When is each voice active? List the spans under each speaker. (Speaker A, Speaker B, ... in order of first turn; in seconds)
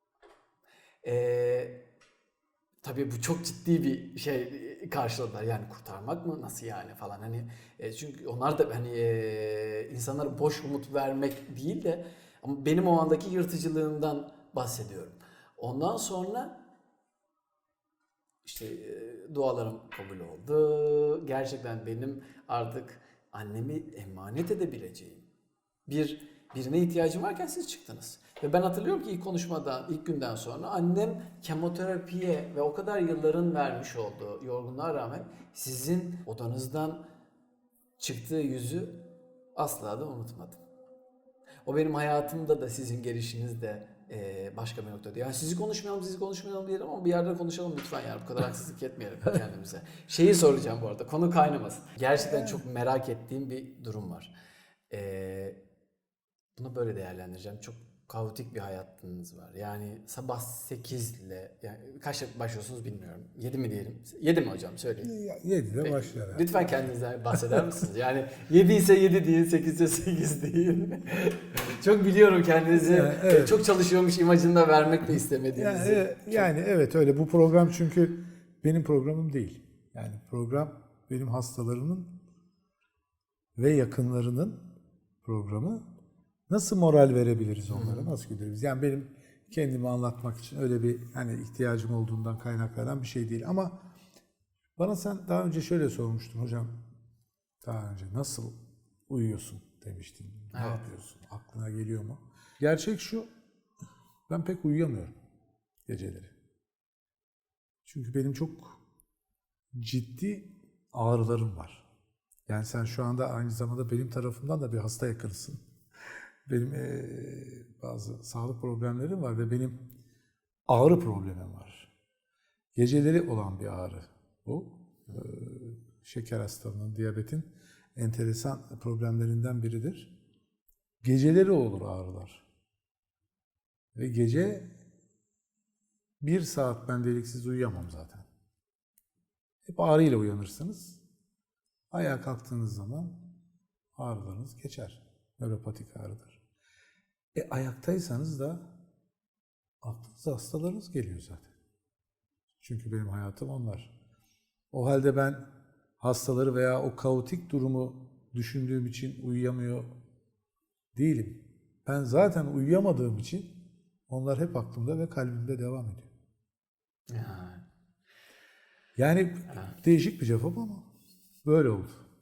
Speaker A: 1.0-1.8, 2.8-16.6, 18.4-25.2, 25.9-37.0, 38.0-40.6, 41.6-54.3, 54.9-55.6, 56.6-65.1, 65.8-76.5, 87.7-88.2, 100.5-100.9, 167.1-167.6, 169.5-169.8
Speaker B: 52.3-52.5, 65.0-66.5, 72.7-73.6, 75.5-82.2, 83.5-84.7, 85.2-85.9, 86.5-93.8, 94.8-96.8, 97.6-98.6, 99.1-103.3, 104.3-105.2, 105.9-106.3, 107.8-108.8, 109.7-111.9, 112.5-115.6, 116.5-119.8, 120.7-121.9, 122.7-130.1, 131.0-132.4, 133.9-134.7, 136.2-138.3, 139.7-141.0, 141.9-143.2, 143.9-146.4, 147.3-148.7, 149.8-151.5, 152.6-153.9, 154.7-155.4, 156.0-159.9, 160.9-166.1, 169.0-170.9, 171.4-172.0